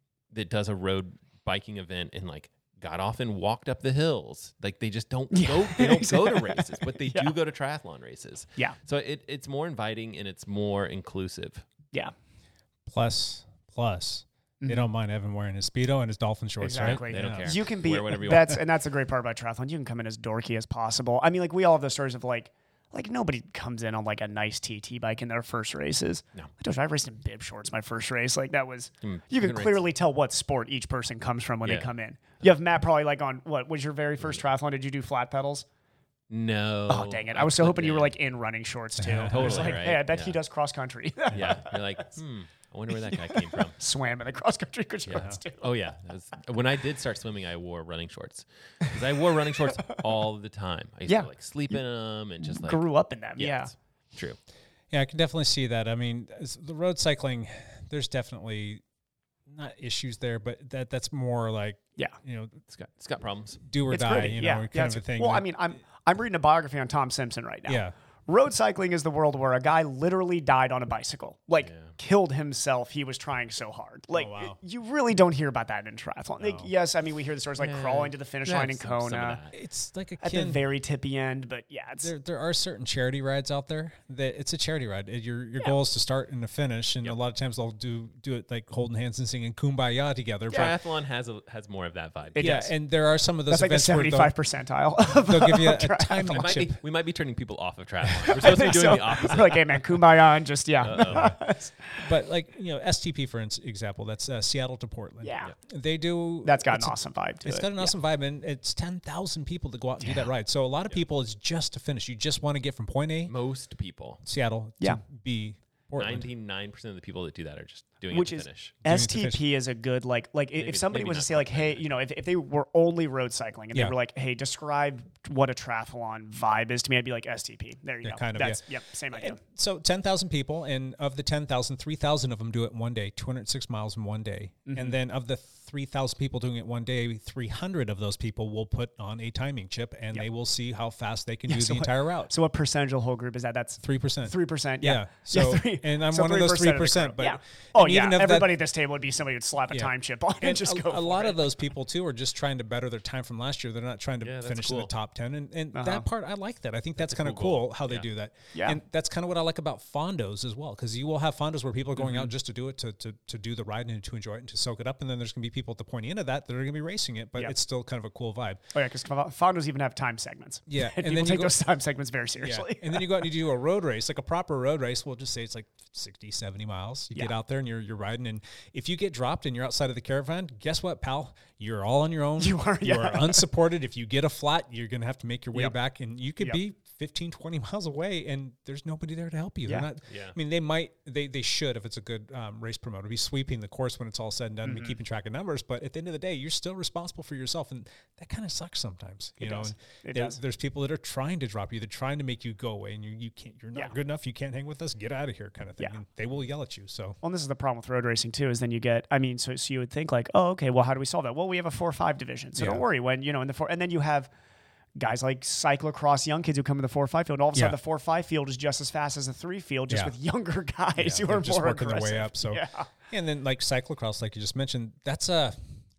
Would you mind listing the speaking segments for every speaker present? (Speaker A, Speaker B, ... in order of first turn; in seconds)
Speaker A: 0.3-11.6, 16.8-18.6, 29.0-29.8, 36.3-38.1, 39.3-40.4, 41.3-43.8, 45.1-52.8, 53.4-54.4, 62.7-63.6, 71.6-71.9, 77.6-79.5, 90.5-92.6, 96.3-100.0, 100.8-101.4, 113.3-114.2, 116.0-118.8, 120.6-121.9, 154.2-154.9, 157.0-158.1, 190.1-190.4
Speaker B: 5.3-7.3, 14.6-14.9, 16.6-35.6, 36.9-42.0, 42.9-45.8, 51.1-51.8, 52.4-53.7, 63.9-79.4, 80.2-82.1, 92.3-92.7, 93.5-96.4, 98.3-102.0, 105.2-105.5, 106.4-108.0, 110.0-110.3, 118.1-129.4, 134.7-135.0, 141.5-151.4, 155.7-156.1, 158.5-158.8, 168.7-173.3, 182.4-183.5, 194.6-195.0, 199.4-200.4, 207.2-214.3, 215.0-222.9
Speaker C: 12.9-17.5, 39.0-39.8, 54.9-58.8, 59.5-62.6, 63.6-65.5, 67.7-67.9, 74.1-74.6, 76.4-76.7, 79.5-80.6, 82.0-90.7, 92.4-94.3, 95.2-96.8, 102.0-113.3, 114.2-116.3, 118.8-119.4, 128.0-142.3, 143.8-148.6, 149.7-168.6, 170.7-171.6, 172.4-207.2, 212.6-212.8, 219.9-220.2, 221.0-225.7